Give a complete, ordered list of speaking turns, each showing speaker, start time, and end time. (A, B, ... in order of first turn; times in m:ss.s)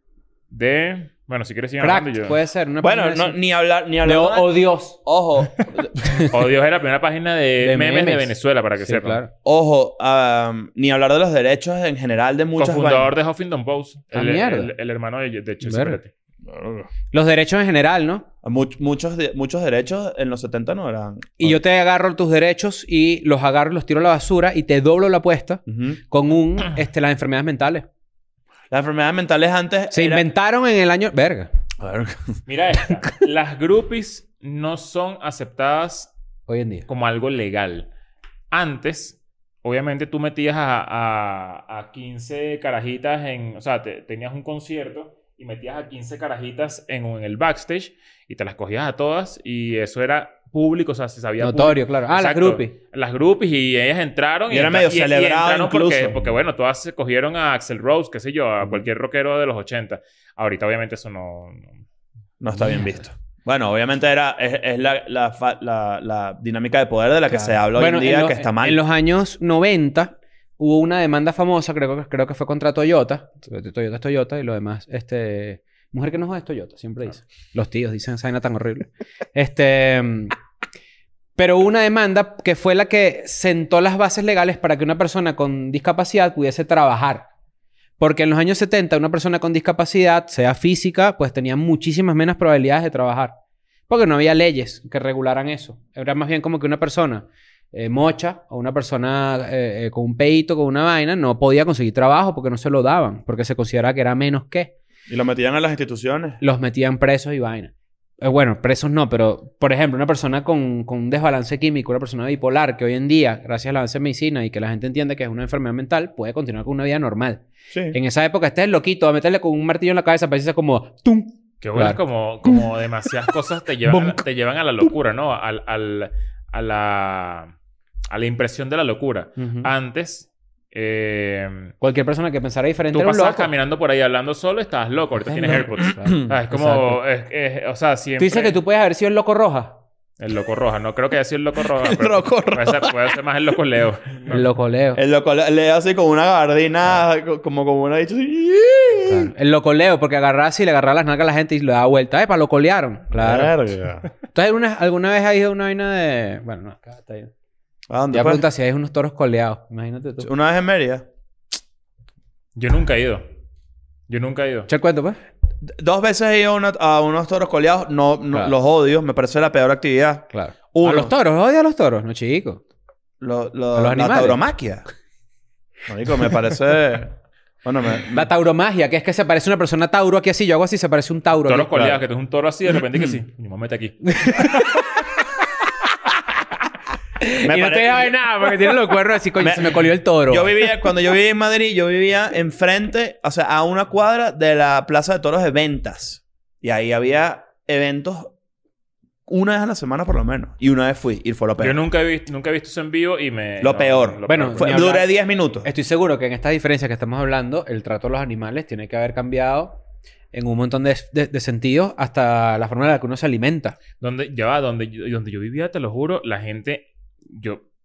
0:00.5-0:02.4 A
0:01.8-0:03.4 B
0:02.8-0:06.0 C
0:04.0-0:05.0 B
0:06.2-0:09.2 A
0:07.6-0:09.3 B
0:09.4-0:13.1 C
0:12.6-0:16.1 A
0:14.1-0:14.7 B
0:15.6-0:16.0 B
0:16.4-0:16.9 C
0:17.1-0:18.2 B
0:18.4-0:21.6 C
0:21.4-0:27.8 B
0:25.7-0:26.0 C
0:28.7-0:30.2 C
0:29.9-0:31.5 B
0:31.8-0:32.4 C
0:32.5-0:36.1 A
0:36.5-0:36.9 B
0:36.9-0:37.9 A
0:38.5-1:01.8 A
0:51.4-0:52.7 B
0:54.5-0:56.3 C
1:02.4-1:08.8 C
1:07.3-1:20.3 B
1:21.4-1:27.3 B
1:28.0-1:33.3 B
1:33.9-1:44.7 B
1:45.1-1:46.4 C
1:46.4-2:02.6 B
1:57.7-1:58.0 C
2:01.6-2:07.5 A
2:03.9-2:04.2 B
2:08.1-2:11.7 A
2:09.4-2:09.7 B
2:11.8-2:13.5 B
2:12.9-2:18.6 A
2:15.2-2:17.0 B
2:18.2-2:19.8 B
2:20.2-2:24.4 A
2:21.8-2:23.1 C
2:24.3-2:25.0 B
2:24.9-2:29.3 C
2:29.1-2:33.6 B
2:33.1-2:34.1 C
2:34.3-2:37.3 B
2:37.9-2:38.4 C
2:38.1-2:40.3 B
2:40.2-2:41.0 C
2:42.6-2:43.2 A
2:44.1-2:44.7 A
2:44.7-2:45.2 B
2:45.6-2:51.1 C
2:50.3-2:52.6 B
2:53.2-2:54.8 C
2:53.7-2:54.4 B
2:55.9-2:58.3 C
2:58.1-3:01.9 B
3:01.4-3:04.6 A
3:04.0-3:04.9 B
3:07.2-3:10.6 B
3:07.4-3:08.2 C
3:09.4-3:18.3 C
3:19.3-3:21.8 C
3:21.6-3:24.8 A
3:23.6-3:25.7 C
3:24.3-3:25.1 B
3:25.6-3:29.8 B
3:30.3-3:33.8 B
3:34.0-3:37.6 A